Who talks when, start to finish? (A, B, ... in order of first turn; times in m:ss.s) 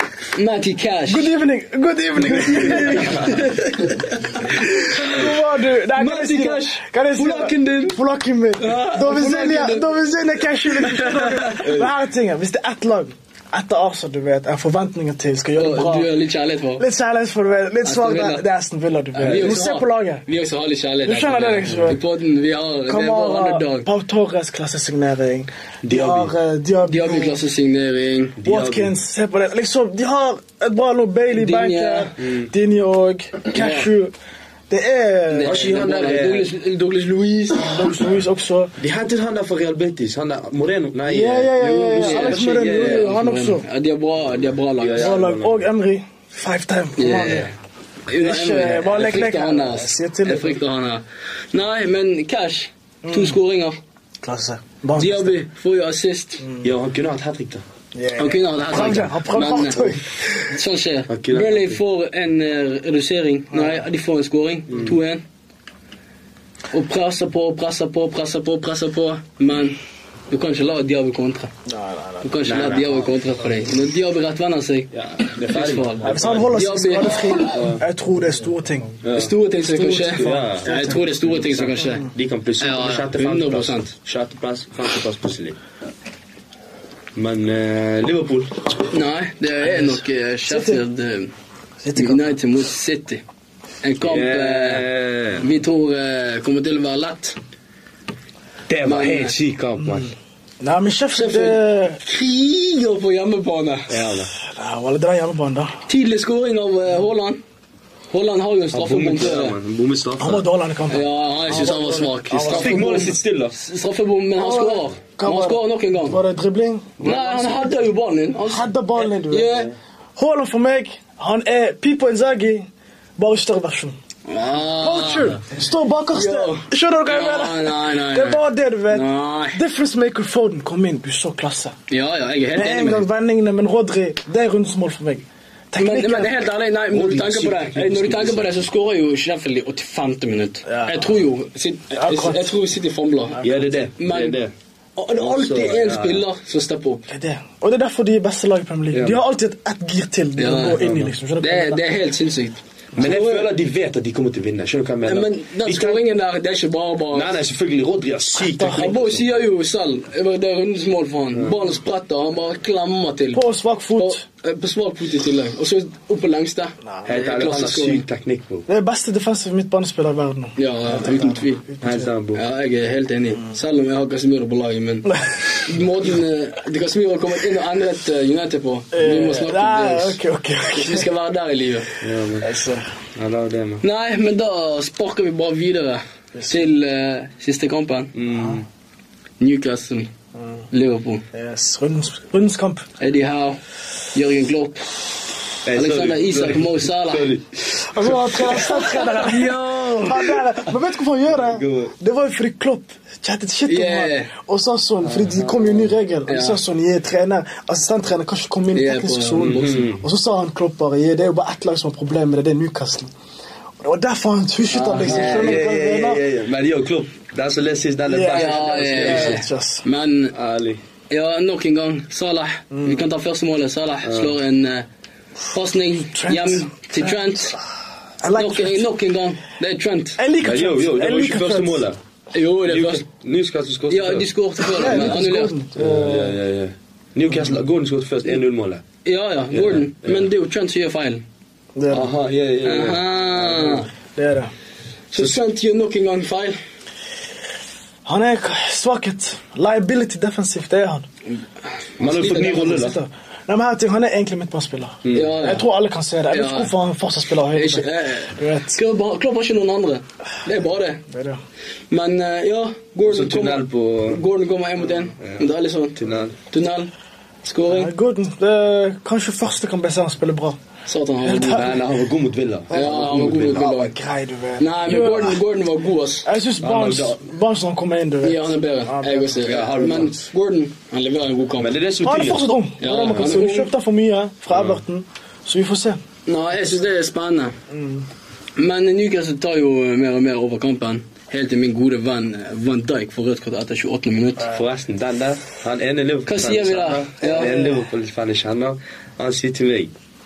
0:00.3-0:01.3 A
0:01.1-0:03.5 B
0:02.3-0:05.3 A
0:04.5-0:16.1 B
0:05.9-0:08.0 A
0:08.6-0:09.9 A
0:10.7-0:11.7 A
0:11.6-0:11.9 C
0:15.6-0:16.8 A
0:16.8-0:20.2 B
0:17.8-0:18.4 A
0:19.2-0:23.9 A
0:19.2-0:19.6 C
0:21.0-0:22.0 B
0:22.9-0:27.4 B
0:25.8-0:26.3 C
0:26.8-0:28.4 A
0:28.4-0:28.9 C
0:28.4-0:34.1 B
0:31.3-0:32.1 A
0:32.2-0:32.5 C
0:33.5-0:33.9 A
0:34.7-0:35.6 B
0:35.3-0:37.8 A
0:35.4-0:36.5 C
0:37.6-0:38.7 B
0:38.8-0:43.1 C
0:41.1-0:43.6 B
0:42.0-0:45.2 A
0:44.8-0:45.6 C
0:44.9-0:47.5 B
0:47.0-0:47.5 A
0:48.1-0:53.8 A
0:48.2-0:50.6 B
0:53.0-0:53.4 B
0:54.2-0:55.4 B
0:55.0-0:56.4 A
0:56.4-0:56.7 B
0:56.6-0:57.6 C
0:57.9-1:00.5 B
0:58.2-0:59.9 A
1:00.5-1:05.2 A
1:01.1-1:01.8 C
1:03.5-1:03.8 B
1:04.7-1:05.0 C
1:06.7-1:09.8 A
1:10.3-1:11.5 A
1:11.7-1:12.3 B
1:12.2-1:17.6 A
1:12.4-1:13.2 C
1:14.9-1:16.5 C
1:16.0-1:19.0 B
1:17.5-1:17.8 C
1:19.0-1:19.3 C
1:19.1-1:22.1 A
1:19.7-1:21.1 B
1:20.0-1:25.6 C
1:22.6-1:23.9 A
1:27.1-1:28.7 C
1:28.9-1:31.3 A
1:29.7-1:30.8 B
1:31.8-1:32.4 B
1:32.0-1:33.2 A
1:33.8-1:34.8 A
1:34.0-1:35.5 C
1:35.4-1:37.4 A
1:38.7-1:40.1 C
1:38.8-1:39.4 A
1:40.6-1:42.0 B
1:41.1-1:44.0 A
1:43.9-1:44.3 C
1:44.4-1:45.8 B
1:45.9-1:47.4 A
1:48.1-1:49.6 A
1:48.7-1:50.4 C
1:50.2-1:53.0 B
1:50.9-1:56.2 A
1:52.4-1:53.5 C
1:54.4-1:57.6 B
1:57.0-1:59.7 A
1:57.0-1:57.5 C
1:58.4-2:03.9 B
2:04.3-2:05.4 A
2:04.7-2:11.7 B
2:06.1-2:09.6 A
2:11.9-2:13.1 A
2:12.5-2:16.3 B
2:15.8-2:23.4 A
2:16.9-2:18.6 C
2:20.7-2:21.1 B
2:22.0-2:22.5 B
2:23.4-2:24.5 C
2:24.0-2:24.4 A
2:25.0-2:27.1 A
2:25.1-2:26.2 C
2:27.1-2:31.8 B
2:28.9-2:29.2 C
2:30.4-2:30.8 A
2:30.8-2:31.1 C
2:31.4-2:33.5 A
2:33.0-2:36.0 C
2:35.0-2:37.3 A
2:37.1-2:39.2 C
2:38.4-2:38.9 B
2:38.7-2:43.4 A
2:43.3-2:44.2 B
2:44.0-2:48.0 A
2:47.0-2:48.6 C
2:48.7-2:52.1 B
2:50.6-2:51.6 A
2:51.8-2:52.4 C
2:52.3-3:00.2 A
2:58.9-3:01.1 B
3:00.7-3:01.9 A
3:02.0-3:02.5 C
3:02.4-3:02.8 B
3:03.1-3:03.8 C
3:03.8-3:08.1 A
3:08.1-3:08.6 C
3:09.4-3:10.1 A
3:10.7-3:11.2 A
3:11.3-3:12.8 B
3:13.0-3:13.6 A
3:14.1-3:14.8 A
3:15.6-3:18.6 C
3:15.7-3:17.3 A
3:17.9-3:33.1 B
3:18.6-3:20.5 A
3:21.3-3:21.9 C
3:23.7-3:24.3 A
3:25.0-3:25.9 C
3:26.3-3:26.6 A
3:28.7-3:29.8 A
3:29.4-3:30.0 C
3:33.8-3:36.2 B
3:34.7-3:35.6 A
3:35.0-3:39.4 C
3:38.1-3:39.8 B
3:38.3-3:40.3 A
3:40.3-3:40.8 C
3:41.1-3:44.9 A
3:42.7-3:43.0 B
3:44.0-3:44.4 C
3:45.5-3:47.6 A
3:46.1-3:47.6 B
3:48.2-3:48.9 B
3:48.3-3:50.2 A
3:50.2-3:51.8 B
3:50.4-3:52.0 C
3:52.3-3:53.0 A
3:52.6-3:54.3 C
3:53.9-3:55.6 A
3:54.7-3:56.4 B
3:55.8-3:58.8 C
3:59.0-4:01.2 A
3:59.5-4:00.3 C
4:01.7-4:02.1 B
4:01.9-4:03.7 C
4:02.6-4:03.9 A
4:03.4-4:04.5 B
4:05.1-4:06.6 A
4:08.0-4:11.0 B
4:12.0-4:13.0 C
4:12.0-4:18.8 B
4:15.0-4:15.4 C
4:15.1-4:15.7 A
4:16.3-4:16.7 A
4:17.5-4:21.0 A
4:21.1-4:21.4 B
4:21.9-4:26.9 A
4:23.0-4:24.2 C
4:25.2-4:26.4 C
4:27.4-4:27.9 A
4:27.7-4:30.6 B
4:30.8-4:31.7 A
4:31.2-4:31.8 B
4:31.3-4:33.6 C
4:32.7-4:33.9 A
4:32.7-4:35.4 B
4:34.6-4:36.3 A
4:36.2-4:40.2 B
4:36.6-4:37.2 C
4:38.2-4:41.7 A
4:39.4-4:40.2 C
4:41.6-4:42.6 C
4:42.0-4:46.0 B
4:42.8-4:43.7 A
4:44.5-4:44.8 C
4:46.3-4:47.5 A
4:47.7-4:48.0 B
4:48.6-4:54.5 A
4:54.5-4:59.9 C
4:56.3-4:57.6 A
4:57.3-4:57.7 B